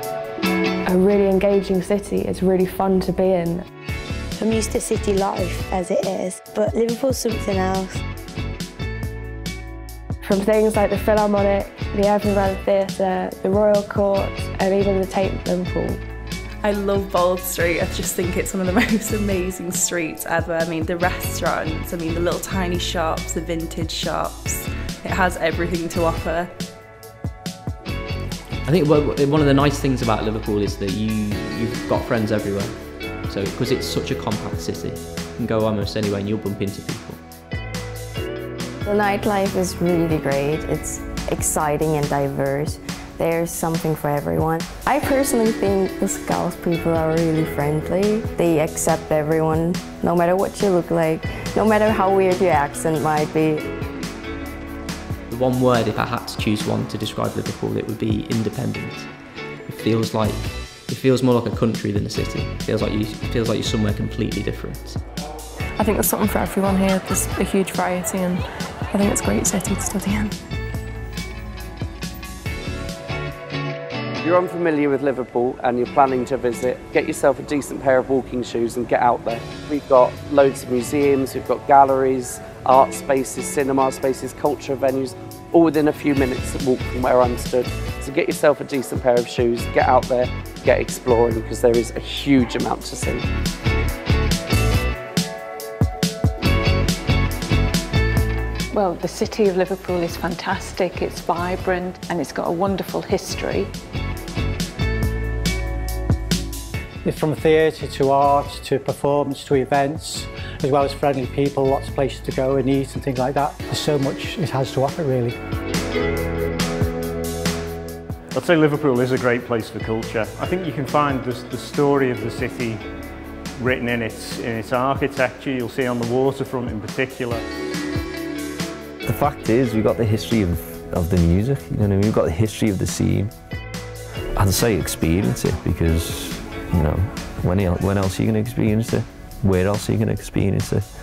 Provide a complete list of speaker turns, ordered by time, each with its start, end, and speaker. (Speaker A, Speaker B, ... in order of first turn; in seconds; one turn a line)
Speaker A: 0.8-3.6
Speaker B: 4.3-8.0
Speaker A: 10.2-16.0
Speaker C: 16.6-26.5
Speaker D: 28.6-37.2
Speaker E: 38.8-53.6
Speaker D: 55.3-59.1
Speaker D: 59.7-65.0
Speaker F: 65.8-70.3
Speaker G: 74.2-93.2
Speaker H: 98.7-103.7
Speaker I: 107.0-115.3
Speaker J: 118.3-122.8
Speaker J: 123.6-127.4
Speaker K: 129.1-133.3
Speaker K: 134.3-140.9